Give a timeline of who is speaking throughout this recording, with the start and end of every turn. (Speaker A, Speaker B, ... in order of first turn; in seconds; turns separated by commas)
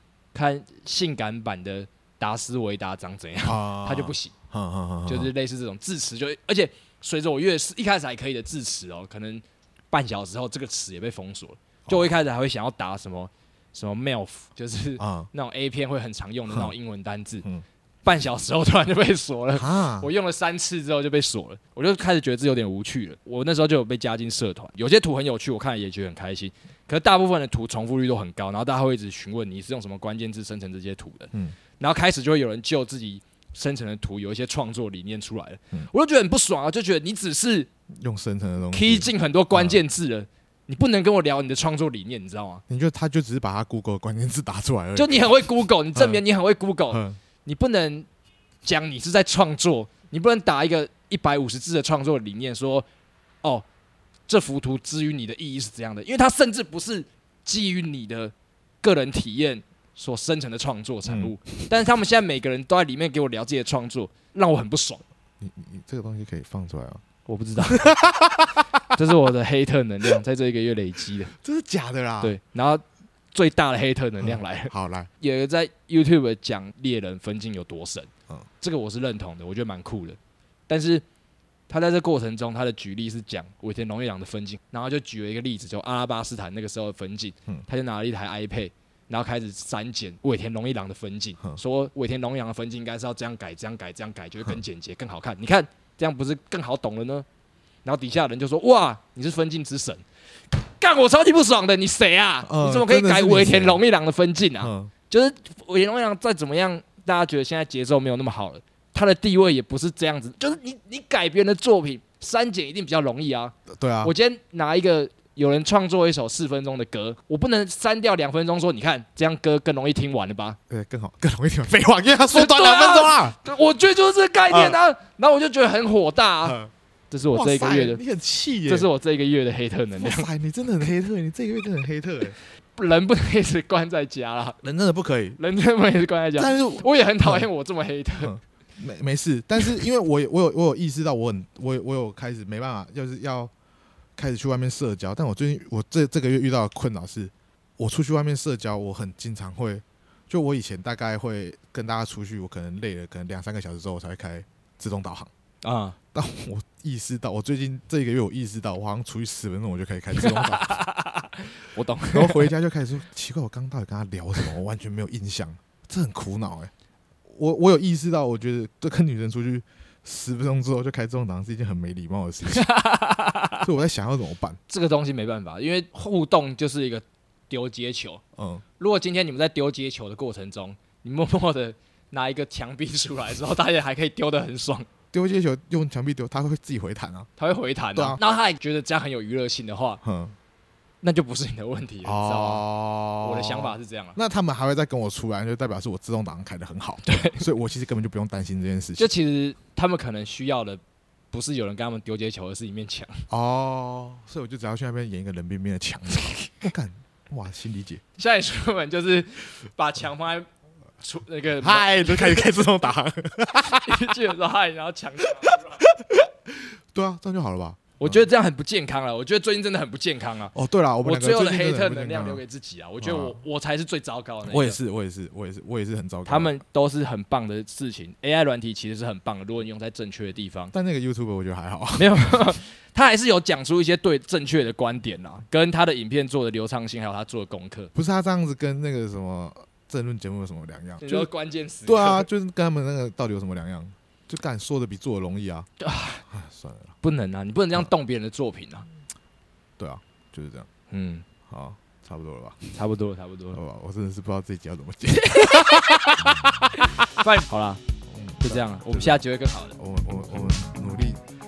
Speaker A: 0.3-4.3, Speaker B: 3.4-5.3, Speaker A: 5.0-17.4, Speaker B: 11.9-12.1, Speaker B: 15.0-15.3, Speaker A: 18.0-37.7, Speaker B: 19.5-20.1, Speaker B: 38.0-39.8, Speaker A: 38.7-42.6, Speaker B: 42.7-46.2, Speaker A: 45.0-48.1, Speaker B: 46.9-47.2, Speaker A: 48.6-52.9, Speaker A: 54.3-65.0, Speaker B: 61.0-61.9, Speaker B: 65.4-67.0, Speaker A: 67.2-67.9, Speaker B: 67.6-69.0, Speaker A: 68.9-71.3, Speaker B: 71.3-72.3, Speaker A: 72.2-78.1, Speaker B: 74.2-75.1, Speaker A: 78.6-80.2, Speaker A: 80.7-81.0, Speaker A: 81.7-97.2, Speaker A: 97.8-100.0, Speaker A: 100.5-120.6, Speaker B: 102.4-103.8, Speaker B: 104.6-104.9, Speaker B: 113.7-114.1, Speaker B: 120.7-123.4, Speaker A: 122.3-126.6, Speaker B: 124.5-124.8, Speaker B: 126.4-126.7, Speaker A: 127.1-128.0, Speaker B: 127.3-128.9, Speaker A: 128.7-130.3, Speaker B: 130.0-132.4, Speaker A: 132.8-134.6, Speaker B: 134.6-135.4, Speaker A: 135.4-138.3, Speaker B: 136.4-137.5, Speaker B: 138.2-143.5, Speaker B: 144.2-155.3, Speaker A: 155.6-155.9, Speaker B: 156.1-160.8, Speaker A: 160.2-162.5, Speaker B: 162.1-166.7, Speaker B: 167.3-172.7, Speaker A: 172.4-173.7, Speaker B: 173.6-174.6, Speaker A: 174.7-178.2, Speaker B: 178.3-178.6, Speaker A: 178.8-184.9, Speaker B: 185.1-187.3, Speaker A: 187.4-190.0, Speaker B: 190.0-190.3, Speaker A: 191.0-192.6, Speaker B: 192.0-199.1, Speaker A: 193.2-194.2, Speaker A: 197.0-197.4, Speaker A: 199.0-200.8, Speaker A: 201.3-203.2, Speaker B: 203.3-208.0, Speaker A: 208.2-210.5, Speaker A: 211.0-212.4, Speaker B: 211.6-214.1, Speaker A: 213.6-215.8, Speaker B: 215.3-218.2, Speaker A: 218.0-224.8, Speaker B: 220.5-222.4, Speaker B: 223.0-223.4, Speaker B: 224.4-226.6, Speaker A: 226.2-230.7, Speaker B: 230.7-232.4, Speaker A: 232.0-237.9, Speaker B: 237.9-241.3, Speaker A: 241.0-242.3, Speaker B: 241.8-245.7, Speaker A: 245.8-246.2, Speaker B: 246.3-246.9, Speaker A: 247.0-248.9, Speaker B: 249.8-250.7, Speaker A: 250.9-251.2, Speaker B: 251.4-252.8, Speaker A: 252.7-253.6, Speaker B: 253.5-256.9, Speaker A: 255.3-257.8, Speaker B: 258.1-259.2, Speaker A: 258.4-259.8, Speaker B: 259.8-261.2